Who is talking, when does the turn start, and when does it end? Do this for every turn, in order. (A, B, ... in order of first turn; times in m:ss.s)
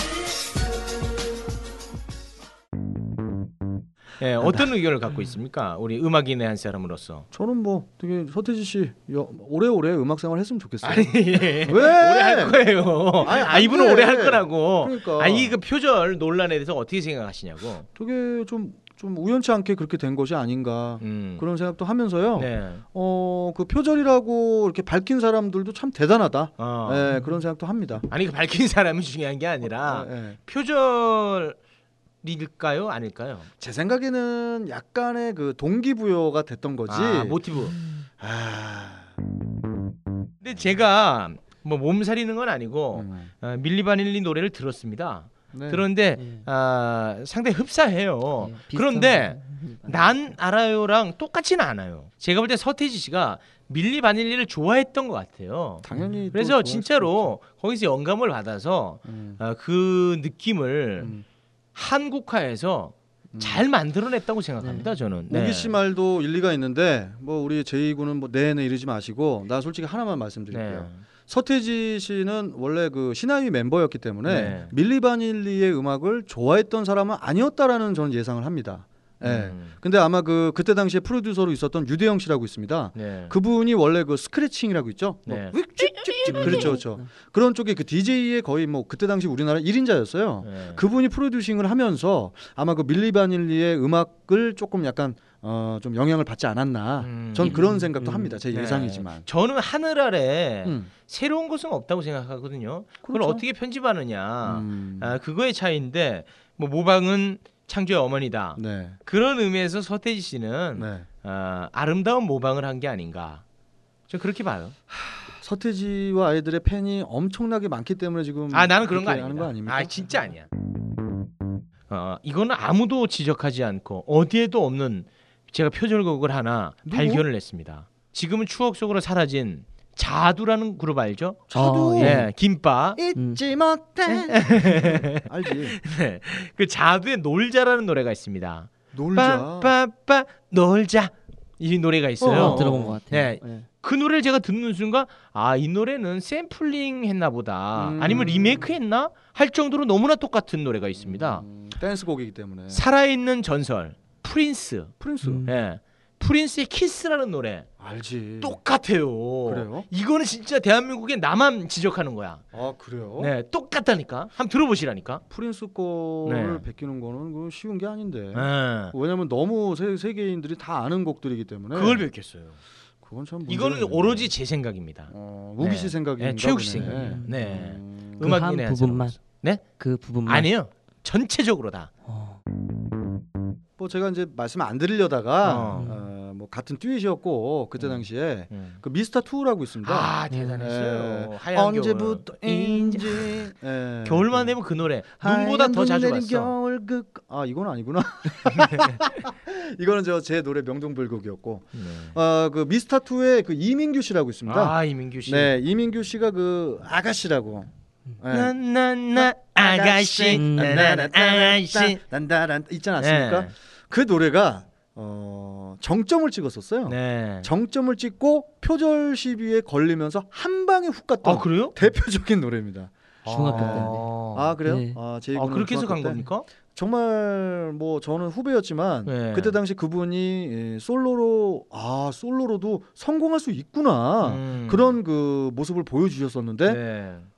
0:04.2-0:07.2 A
0:07.3-0:12.6 B
0:10.8-0:17.8 A
0:13.2-0:15.5 B
0:18.0-0:28.0 B
0:21.0-0:21.4 A
0:22.4-0:22.8 A
0:26.6-0:27.1 A
0:28.1-0:31.6 A
0:29.8-0:30.4 B
0:32.2-0:33.5 A
0:33.6-0:37.4 B
0:36.9-0:37.8 A
0:38.2-0:39.1 B
0:40.4-1:01.1 A
0:42.9-0:43.3 B
0:45.5-0:45.8 B
0:46.2-0:46.4 C
0:48.4-0:50.3 C
0:55.8-0:57.3 B
0:55.9-0:56.2 C
0:59.0-0:59.4 B
1:01.0-1:01.2 B
1:01.7-1:05.7 A
1:03.3-1:03.6 B
1:04.6-1:04.9 C
1:05.3-1:39.2 B
1:10.5-1:11.0 A
1:14.2-1:14.7 A
1:19.2-1:19.7 A
1:22.9-1:23.3 A
1:25.3-1:25.6 A
1:26.3-1:27.1 C
1:26.3-1:26.7 A
1:30.4-1:30.8 A
1:37.0-1:53.4 A
1:37.4-1:37.8 C
1:40.6-1:40.9 B
1:43.0-1:43.4 B
1:44.4-1:45.1 B
1:48.6-1:49.0 B
1:50.7-1:51.1 B
1:54.1-1:54.7 A
1:54.9-1:59.9 B
1:58.5-2:00.5 A
2:01.9-2:13.0 A
2:06.8-2:07.2 B
2:11.5-2:12.3 B
2:11.5-2:12.3 C
2:13.0-2:15.8 B
2:13.1-2:13.4 C
2:14.1-2:31.4 A
2:18.9-2:19.7 B
2:22.2-2:23.6 B
2:22.2-2:23.4 C
2:27.7-2:28.7 B
2:31.0-2:32.8 B
2:32.7-2:37.7 A
2:35.0-2:35.4 B
2:35.2-2:35.5 C
2:37.8-2:38.6 B
2:38.4-2:42.4 A
2:39.4-2:39.9 B
2:42.5-2:43.3 B
2:43.2-2:45.2 A
2:45.3-2:52.0 B
2:46.2-2:46.6 A
2:48.3-2:48.9 A
2:51.7-2:52.6 A
2:53.0-2:54.3 B
2:53.5-2:59.6 A
2:55.1-2:58.4 B
2:56.8-2:57.5 C
2:58.2-2:59.2 C
2:59.8-3:00.5 C
3:00.2-3:01.9 A
3:02.0-3:02.4 C
3:03.8-3:14.6 B
3:05.4-3:05.9 A
3:05.7-3:06.0 C
3:07.8-3:08.8 A
3:09.8-3:13.4 A
3:10.3-3:10.6 C
3:14.0-3:16.5 A
3:15.1-3:28.5 B
3:21.7-3:22.1 A
3:24.4-3:25.5 A
3:28.3-3:32.0 A
3:29.1-3:56.8 B
3:30.3-3:30.8 C
3:33.0-3:33.5 A
3:36.8-3:37.5 A
3:41.2-3:41.8 A
3:43.2-3:44.5 A
3:43.2-3:44.1 C
3:44.6-3:45.0 C
3:45.3-3:46.4 A
3:49.0-3:49.6 A
3:54.2-3:55.0 A
3:56.6-3:57.3 A